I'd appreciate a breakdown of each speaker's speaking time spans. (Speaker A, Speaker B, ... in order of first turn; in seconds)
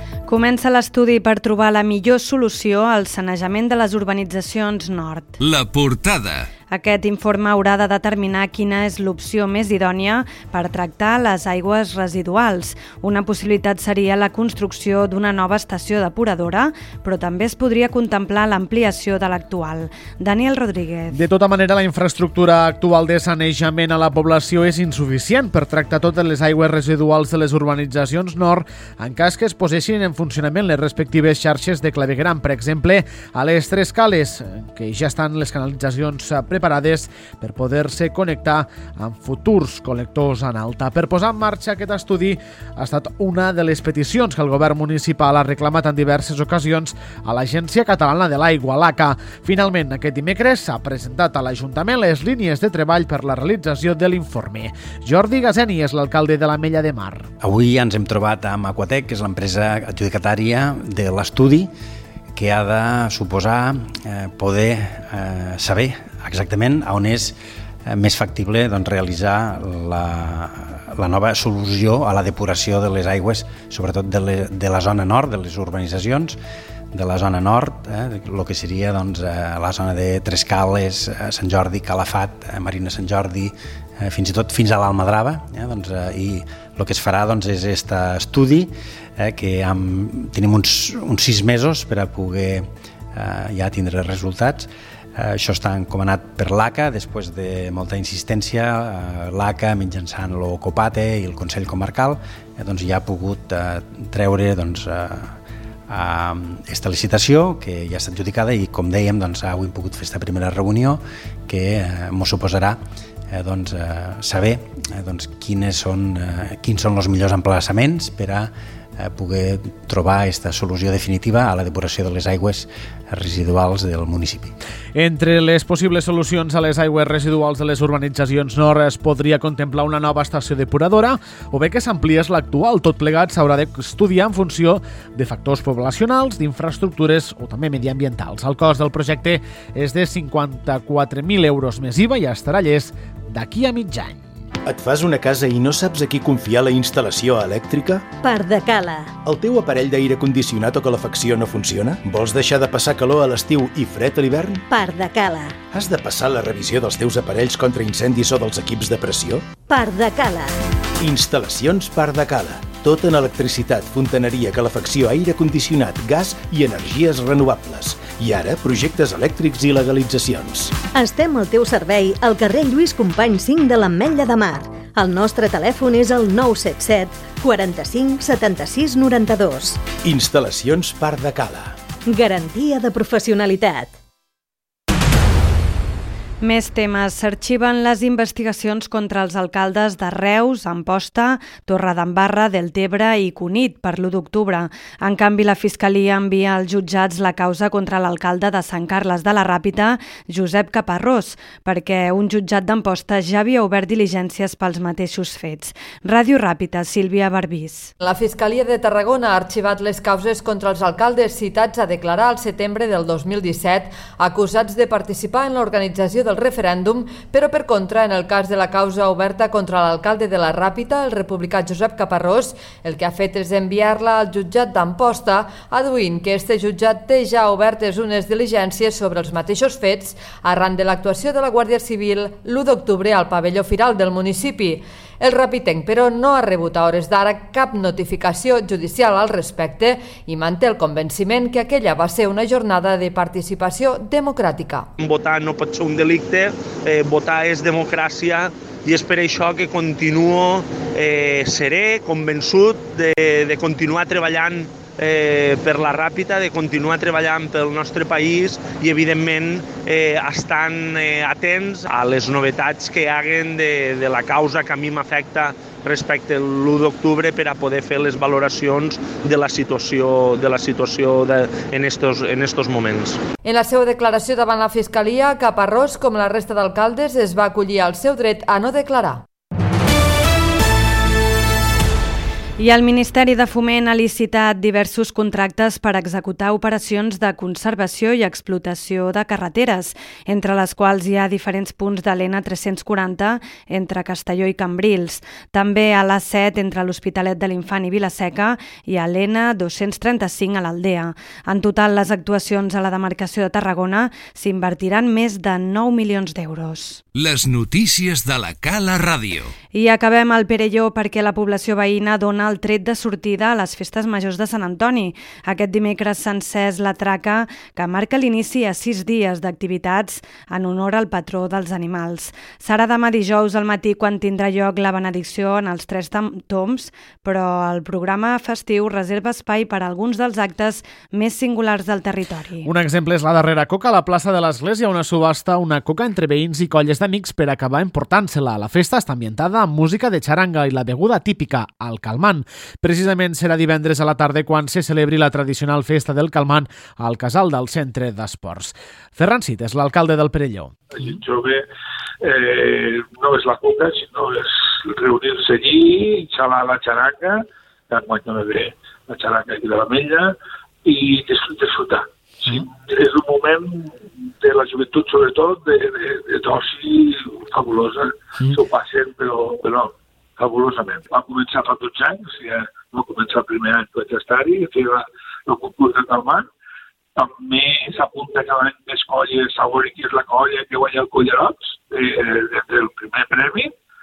Speaker A: 0.3-5.4, 6.7-21.2, 186.4-207.9, 282.6-307.0, 309.7-332.7
Speaker B: 5.4-6.5, 307.1-309.5
Speaker C: 21.1-57.3, 125.0-144.2, 332.6-350.8
Speaker D: 57.4-61.7, 62.3-76.4, 76.9-105.3, 105.9-112.8, 113.3-124.5
Speaker E: 144.7-148.1, 149.2-154.6, 155.7-159.4, 161.0-170.8, 180.0-181.8
Speaker F: 148.2-149.1, 154.7-155.6, 159.7-160.6, 170.9-179.8, 182.1-183.9
Speaker G: 208.0-244.9, 273.4-279.2
Speaker H: 245.1-273.1
Speaker I: 350.9-351.6, 352.2-360.3, 360.9-376.5, 377.2-383.7